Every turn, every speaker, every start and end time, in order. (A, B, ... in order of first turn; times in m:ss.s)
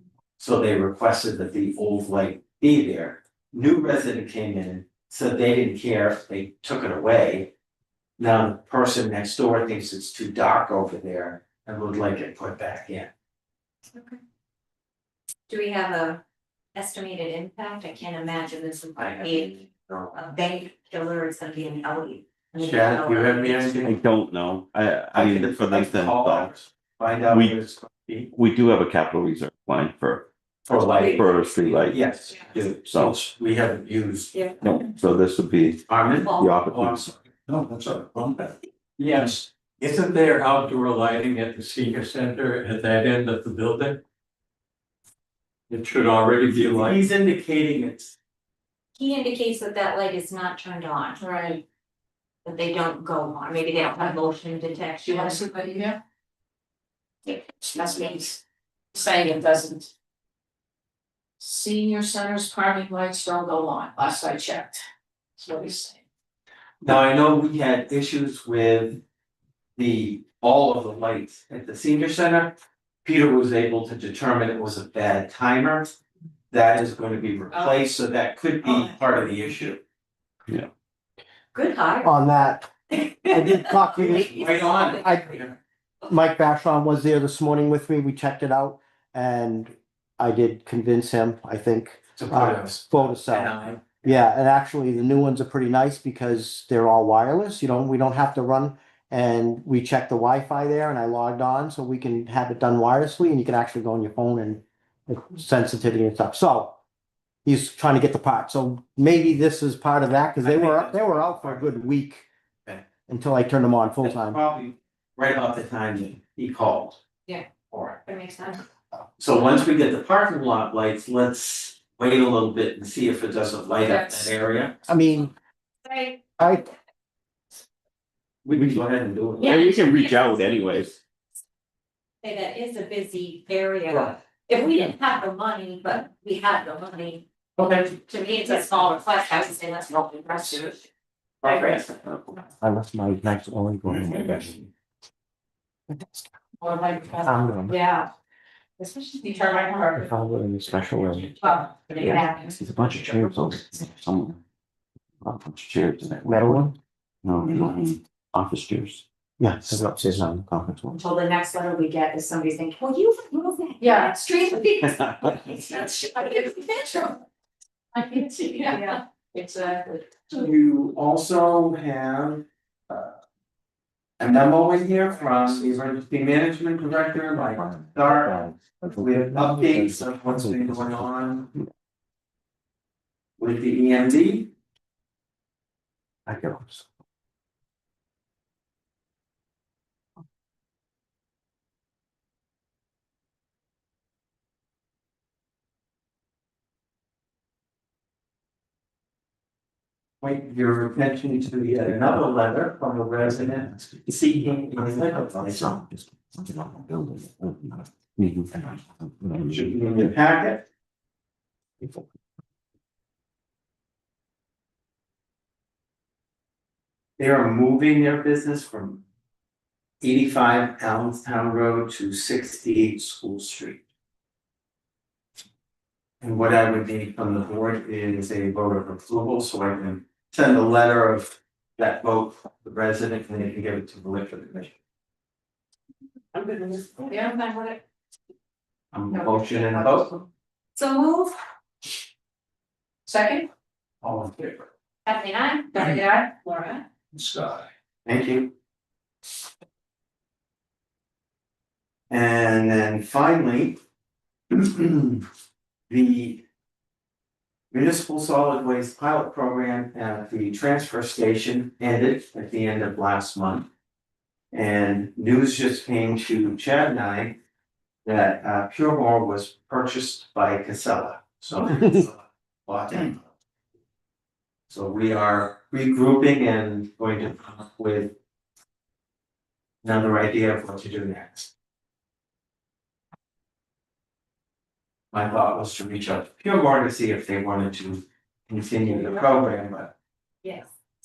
0:00.4-0:07.5 A
0:08.2-0:13.1 A
0:15.5-0:16.2 B
0:16.8-0:19.6 B
0:19.0-0:20.2 A
0:20.1-0:23.7 B
0:22.6-0:24.0 A
0:23.8-0:26.5 C
0:25.1-0:28.3 A
0:27.3-0:27.6 C
0:28.3-0:30.3 C
0:30.7-0:31.3 A
0:30.7-0:31.4 B
0:31.0-0:32.0 C
0:31.9-0:34.4 A
0:32.9-0:33.2 C
0:34.3-0:34.6 B
0:34.6-0:37.1 C
0:35.9-0:37.3 A
0:36.2-0:36.6 B
0:37.6-0:38.0 D
0:39.0-0:44.0 D
0:45.7-0:47.0 D
0:46.6-0:48.1 A
0:49.0-0:51.2 B
0:51.2-0:51.6 E
0:52.4-0:55.5 B
0:55.1-0:56.0 E
0:57.3-0:58.4 E
0:58.9-0:59.9 E
1:01.4-1:04.8 E
1:05.4-1:06.0 E
1:06.8-1:09.0 A
1:09.8-1:15.9 A
1:16.5-1:19.8 A
1:17.5-1:17.8 B
1:21.5-1:22.2 B
1:22.0-1:25.4 F
1:22.9-1:25.5 B
1:24.0-1:25.6 A
1:26.0-1:46.8 F
1:32.2-1:34.2 A
1:47.4-1:52.3 F
1:50.4-1:51.7 A
1:53.1-1:54.4 F
1:54.0-1:57.0 A
1:57.7-1:58.0 A
1:58.0-1:58.6 B
1:59.2-2:04.8 A
2:03.8-2:04.3 E
2:04.9-2:05.3 F
2:05.8-2:06.6 B
2:06.4-2:06.7 F
2:08.4-2:09.6 A
2:09.4-2:10.4 B
2:09.4-2:11.0 C
2:12.2-2:17.2 B
2:17.8-2:20.8 B
2:21.4-2:21.9 B
2:21.4-2:22.0 A
2:22.6-2:24.5 F
2:23.9-2:24.4 C
2:26.6-2:27.5 E
2:27.3-2:27.7 F
2:27.7-2:28.1 B
2:28.8-2:29.4 B
2:29.2-2:30.2 E
2:30.1-2:31.3 F
2:31.4-2:32.6 B
2:32.0-2:34.4 C
2:35.2-2:36.7 C
2:36.2-2:36.7 F
2:37.2-2:39.0 C
2:39.4-2:40.3 F
2:39.7-2:41.0 C
2:41.0-2:47.1 B
2:43.8-2:44.3 E
2:45.6-2:47.2 E
2:47.9-2:50.4 E
2:48.7-2:49.0 B
2:50.3-2:53.2 A
2:54.2-2:58.4 A
2:58.2-2:59.9 C
2:58.9-3:01.5 A
3:00.5-3:00.8 C
3:03.4-3:04.5 A
3:06.3-3:06.7 C
3:20.2-3:25.8 A
3:25.4-3:29.7 C
3:29.5-3:30.6 A
3:37.2-3:39.0 A
3:40.0-3:43.8 A
3:46.2-3:54.8 A
3:56.4-3:57.8 B
3:57.1-3:57.4 E
3:58.9-4:00.2 A
3:59.1-4:00.2 E
4:00.8-4:01.4 B
4:03.1-4:03.5 E
4:04.0-4:04.6 A
4:05.1-4:06.8 B
4:08.1-4:08.5 A
4:12.1-4:13.8 A
4:14.5-4:15.2 A
4:15.9-4:16.4 A
4:17.7-4:23.7 A
4:24.5-4:27.4 A
4:28.0-4:33.2 A
4:34.7-4:38.2 A
4:39.8-4:41.5 A
4:45.1-4:49.9 A
4:48.9-4:49.2 B
4:50.4-4:50.7 B